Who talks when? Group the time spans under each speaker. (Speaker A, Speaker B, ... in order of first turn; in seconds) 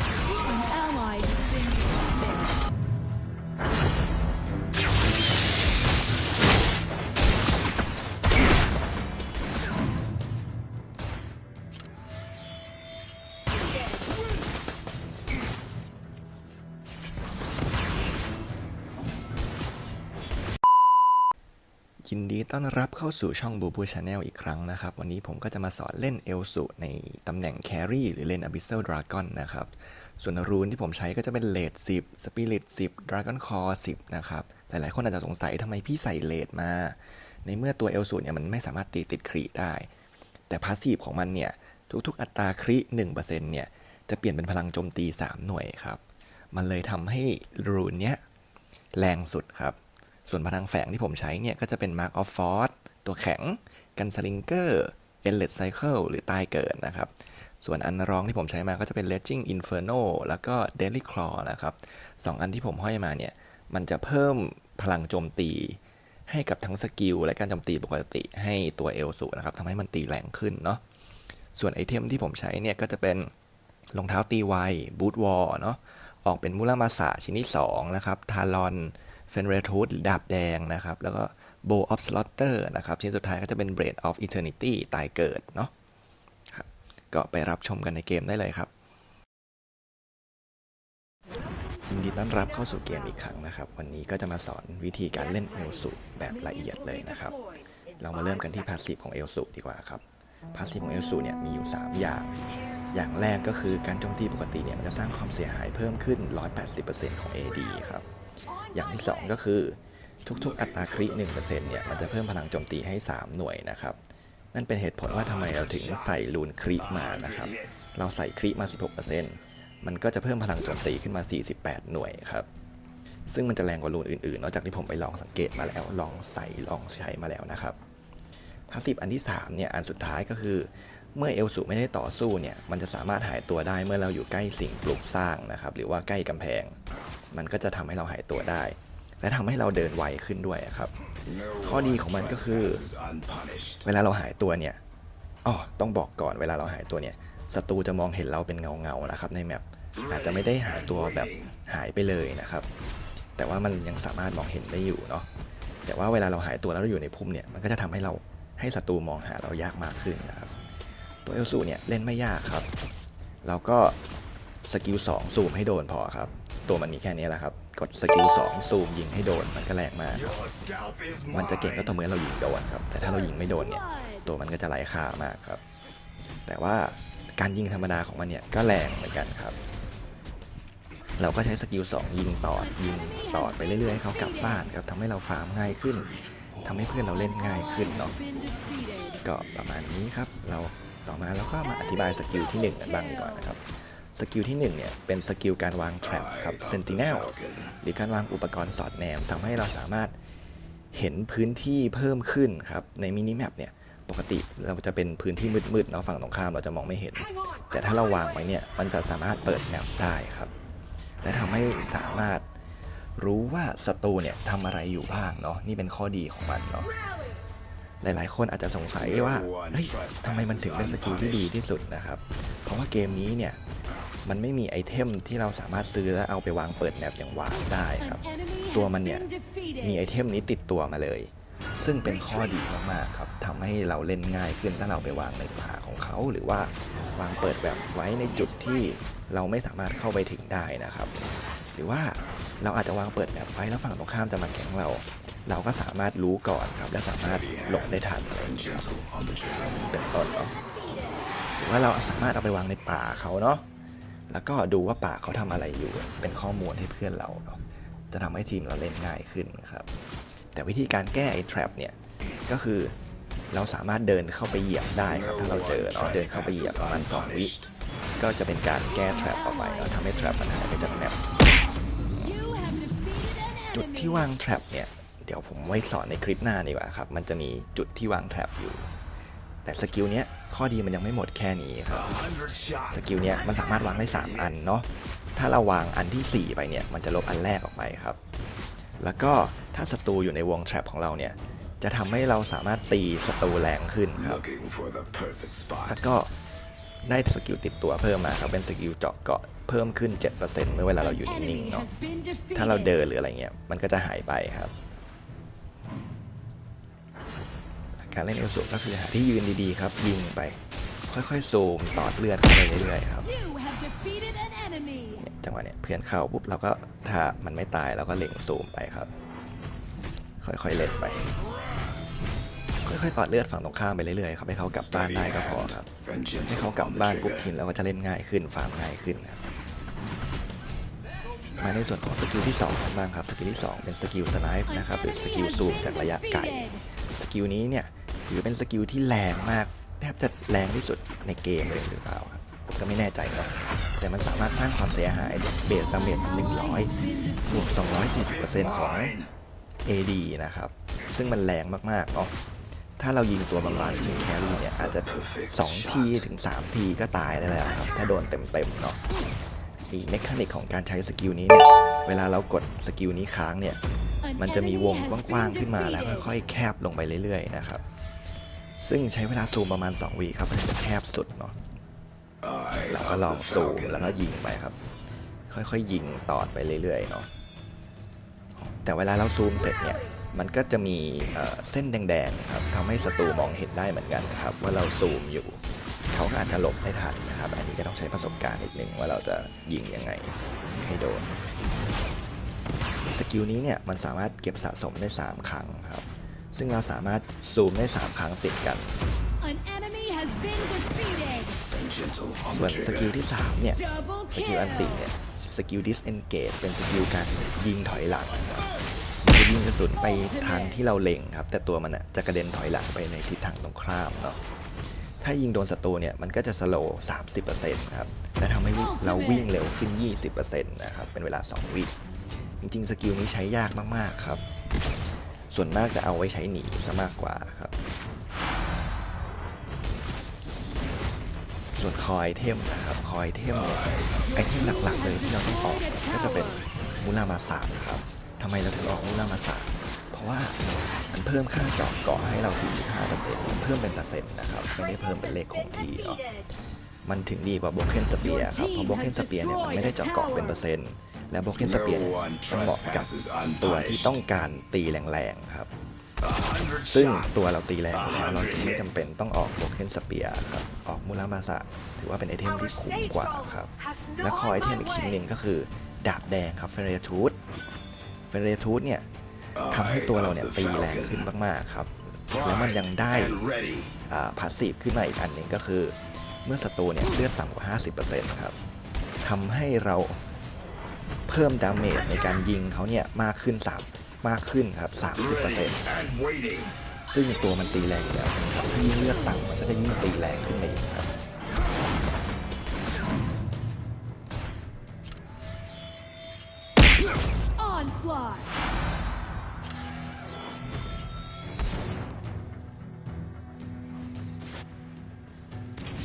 Speaker A: 0.4-2.5, 173.4-174.2, 182.9-184.6, 187.3-189.2, 192.7-193.3, 228.0-229.9, 268.9-270.6, 272.2-274.3, 301.1-302.9, 313.3-315.2, 334.7-336.8, 346.3-347.9, 364.3-366.1, 399.4-401.6, 403.8-404.8, 410.1-410.6, 418.8-419.5, 434.6-436.6, 448.3-450.6, 497.6-498.4
Speaker B: 22.0-39.9, 40.5-48.2, 48.9-70.8, 71.5-73.3, 73.9-85.7, 86.5-88.7, 91.9-97.4, 98.0-100.0, 100.5-102.4, 102.9-108.1, 108.7-114.0, 114.5-122.5, 123.3-127.8, 128.7-136.8, 137.3-140.9, 141.5-142.9, 143.8-144.8, 145.4-152.7, 153.4-155.3, 155.9-160.5, 161.2-162.7, 163.4-164.0, 164.7-170.3, 171.3-175.6, 176.5-179.6, 181.2-186.1, 186.6-188.2, 189.2-200.1, 200.9-210.5, 211.2-212.5, 213.2-216.9, 218.0-223.6, 224.2-229.3, 229.8-241.2, 241.8-248.8, 249.8-250.6, 251.6-253.6, 254.3-259.9, 260.5-262.9, 263.5-267.5, 268.2-271.2, 273.7-278.9, 279.6-282.3, 282.9-288.2, 289.0-294.5, 295.9-296.3, 297.1-301.9, 302.6-304.7, 308.0-313.3, 315.2-319.1, 320.4-321.3, 322.8-325.9, 326.4-329.4, 331.6-349.2, 349.9-352.3, 353.0-359.0, 359.9-363.8, 364.4-367.8, 368.8-371.6, 372.8-374.8, 375.5-377.3, 378.6-391.3, 393.1-399.0, 402.5-408.7, 409.2-414.4, 415.2-421.9, 422.6-424.4, 425.5-427.7, 431.8-446.2, 447.1-455.7, 456.9-467.4, 468.3-469.1, 469.7-473.4, 474.1-478.6, 479.2-480.2, 481.3-485.8, 487.1-491.1
Speaker C: 110.4-112.2, 115.1-117.9, 141.3-143.8, 150.0-151.5, 170.1-172.0, 186.0-186.8, 196.0-197.8, 219.0-221.5, 247.3-249.9, 265.1-267.7, 281.9-284.7, 294.2-296.0, 324.8-327.5, 348.1-349.3, 353.6-356.3, 372.4-374.2, 401.7-403.1, 433.7-434.3, 451.6-454.1, 456.2-459.1, 469.6-471.3, 472.3-473.9, 485.1-486.8